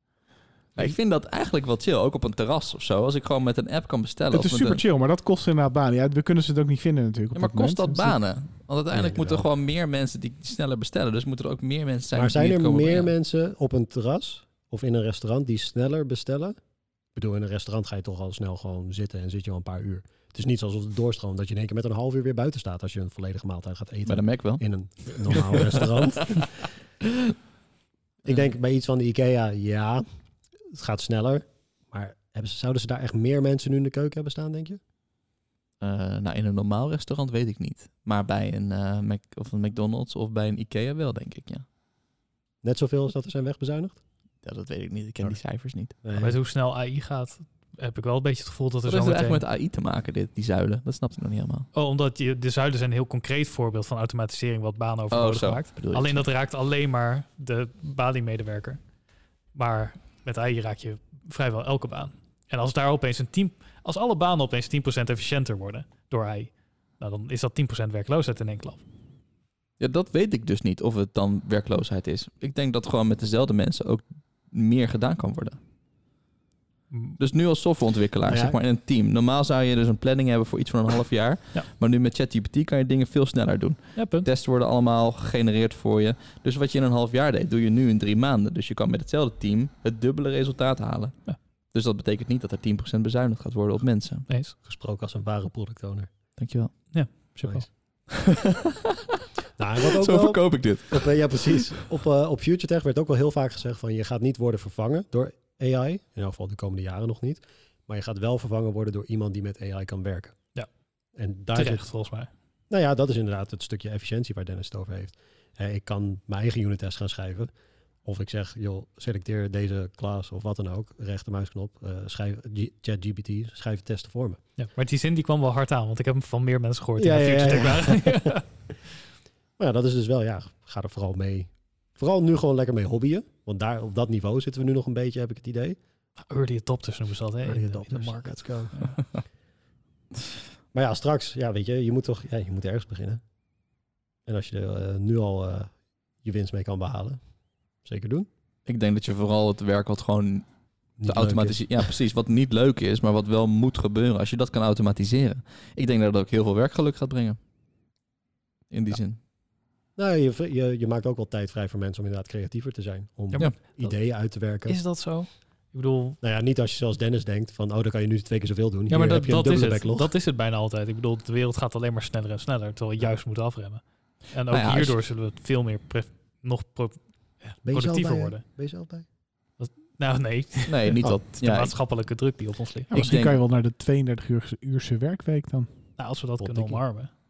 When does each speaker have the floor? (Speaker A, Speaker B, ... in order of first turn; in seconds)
Speaker A: 0.7-4.8, 7.3-13.1, 24.1-24.6, 25.3-25.5, 35.8-41.6, 44.4-46.0, 48.9-51.7, 55.1-56.2, 69.8-75.6, 77.2-94.3, 96.4-96.9, 98.1-98.6, 100.0-101.6, 148.7-150.4, 151.0-157.4, 158.7-159.2, 174.5-174.9, 180.7-181.8, 182.9-183.4
Speaker B: 4.3-8.1, 182.9-185.7
Speaker C: 8.9-9.5, 12.1-16.6, 17.1-26.6, 28.2-30.0, 30.7-34.8, 42.6-44.0, 46.0-46.4, 78.2-78.6, 94.6-96.1, 97.4-97.7, 99.6-110.3, 111.1-111.9, 112.7-117.5, 118.0-124.4, 127.0-128.3, 129.6-135.8, 137.4-138.7, 140.7-143.2, 144.2-145.7, 146.2-147.2, 147.8-148.3, 151.0-151.8, 159.9-164.8, 166.2-170.1, 177.6-179.0, 186.4-186.8
Speaker D: 46.1-49.4, 51.7-58.8, 59.5-68.8, 76.9-77.2, 84.0-84.3, 94.3-94.5, 96.9-97.7, 111.5-112.3, 124.6-128.4, 136.3-139.0, 163.3-163.9, 164.7-166.2, 168.9-178.4, 179.6-182.9, 186.0-187.1